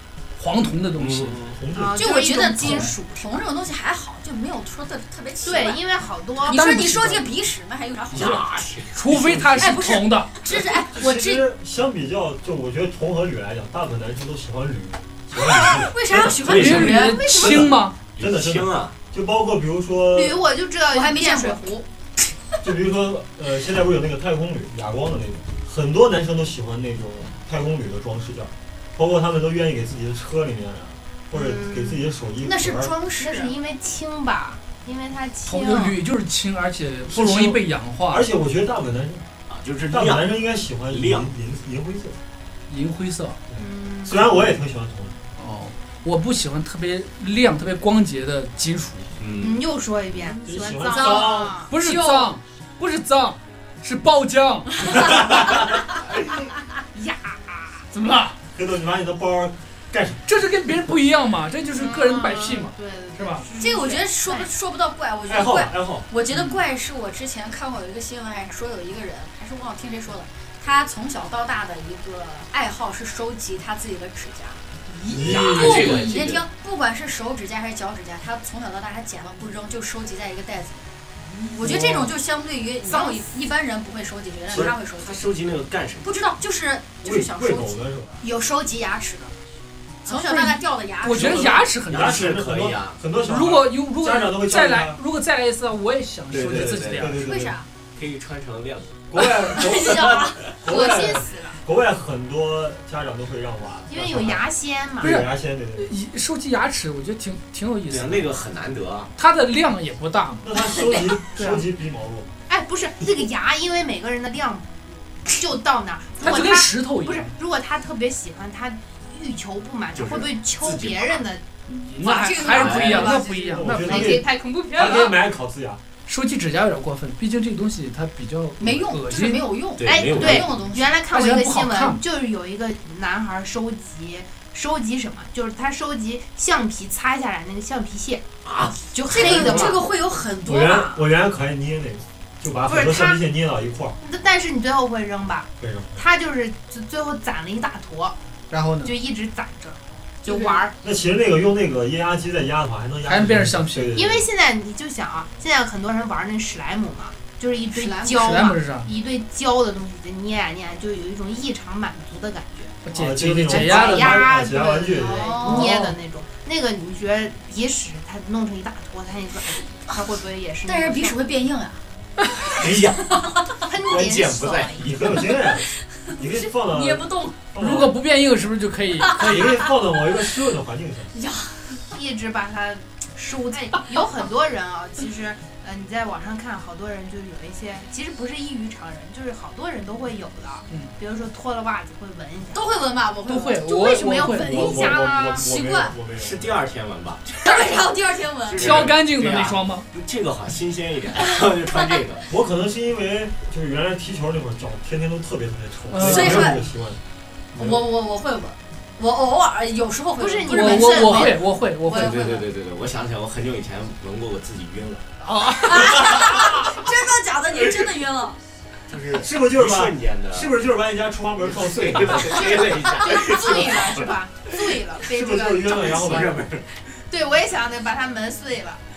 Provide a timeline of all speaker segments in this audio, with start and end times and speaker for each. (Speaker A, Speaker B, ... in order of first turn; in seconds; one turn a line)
Speaker A: 0.4-1.4
Speaker B: 1.0-1.6
Speaker C: 1.5-2.0
Speaker D: 1.7-3.3
Speaker E: 2.0-5.8
Speaker D: 5.4-6.6
Speaker E: 6.5-8.5
Speaker A: 6.5-7.3
Speaker B: 8.1-9.7
Speaker A: 8.2-10.4
Speaker E: 9.6-11.5
Speaker C: 10.5-16.2
Speaker E: 15.3-17.4
Speaker B: 15.6-18.9
Speaker A: 16.4-18.0
Speaker C: 17.4-17.6
Speaker C: 18.2-20.4
Speaker D: 20.1-21.9
Speaker E: 20.9-21.8
Speaker C: 22.6-32.9
Speaker D: 31.3-32.0
Speaker E: 32.4-33.5
Speaker D: 33.1-36.0
Speaker A: 35.5-38.3
Speaker C: 37.1-39.3
Speaker B: 39.5-41.3
Speaker C: 39.9-42.2
Speaker A: 42.7-43.4
Speaker C: 43.5-45.2
Speaker D: 43.6-44.3
Speaker A: 45.4-49.1
Speaker B: 49.2-49.6
Speaker D: 49.4-51.7
Speaker C: 50.4-51.6
Speaker E: 50.9-52.4
Speaker A: 51.7-55.2
Speaker D: 56.9-57.9
Speaker A: 57.9-58.4
Speaker C: 58.5-60.2
Speaker A: 60.3-63.5
Speaker D: 61.7-64.5
Speaker E: 63.6-74.6
Speaker C: 65.3-66.1
Speaker A: 66.3-66.6
Speaker A: 74.9-76.2
Speaker C: 75.1-75.9
Speaker B: 75.1-76.4
Speaker E: 75.3-80.9
Speaker E: 81.5-85.2
Speaker D: 82.8-83.4
Speaker B: 84.5-86.1
Speaker E: 86.0-89.4
Speaker C: 87.0-88.2
Speaker E: 90.0-91.7
Speaker A: 90.1-92.2
Speaker B: 91.8-93.0
Speaker C: 91.8-95.0
Speaker A: 93.2-97.2
Speaker B: 96.3-97.1
Speaker C: 96.5-97.6
Speaker E: 97.2-97.7
Speaker B: 98.0-99.0
Speaker C: 99.1-104.5
Speaker E: 99.5-100.5
Speaker B: 99.7-100.2
Speaker D: 100.6-101.6
Speaker D: 103.9-105.2
Speaker C: 105.0-105.9
Speaker A: 105.0-108.3
Speaker B: 107.9-109.1
Speaker A: 109.2-111.7
Speaker C: 110.4-112.3
Speaker D: 112.5-121.5
Speaker A: 116.2-117.3
Speaker B: 119.9-121.2
Speaker A: 121.7-124.4
Speaker E: 122.0-123.4
Speaker B: 122.5-123.2
Speaker D: 123.0-125.2
Speaker C: 123.4-125.8
Speaker A: 126.1-129.5
Speaker E: 128.6-130.9
Speaker B: 129.8-130.5
Speaker D: 129.9-138.2
Speaker A: 131.1-132.0
Speaker B: 138.4-138.8
Speaker D: 138.8-139.8
Speaker E: 139.1-141.1
Speaker C: 140.4-144.0
Speaker D: 142.7-143.2
Speaker D: 144.0-148.2
Speaker C: 145.6-146.0
Speaker A: 148.5-148.9
Speaker D: 148.8-150.8
Speaker E: 150.2-150.6
Speaker C: 150.8-154.3
Speaker A: 153.1-154.0
Speaker D: 153.9-162.8
Speaker E: 157.7-158.4
Speaker A: 158.1-158.9
Speaker A: 162.8-164.3
Speaker C: 162.9-165.6
Speaker D: 163.4-171.2
Speaker E: 165.0-165.8
Speaker A: 165.4-166.0
Speaker E: 170.7-171.8
Speaker B: 172.5-173.2
Speaker D: 173.6-175.2
Speaker B: 173.8-175.2
Speaker C: 174.8-178.0
Speaker E: 176.1-177.4
Speaker A: 177.6-179.6
Speaker E: 179.0-179.7
Speaker C: 179.2-181.2
Speaker E: 181.1-181.8
Speaker D: 181.9-192.7
Speaker E: 192.5-196.0
Speaker A: 193.3-194.8
Speaker D: 193.7-195.5
Speaker C: 194.4-196.6
Speaker B: 196.2-197.7
Speaker E: 197.4-198.8
Speaker B: 198.5-202.2
Speaker A: 198.6-199.9
Speaker C: 202.3-207.0
Speaker A: 205.9-206.6
Speaker E: 206.0-206.6
Speaker E: 207.6-212.5
Speaker D: 210.2-211.5
Speaker A: 210.5-212.3
Speaker B: 211.9-215.1
Speaker A: 215.2-216.8
Speaker E: 215.6-218.4
Speaker B: 218.9-220.6
Speaker C: 219.1-222.8
Speaker B: 221.5-224.2
Speaker D: 222.3-226.5
Speaker C: 225.1-226.5
Speaker B: 225.7-226.7
Speaker D: 227.1-228.8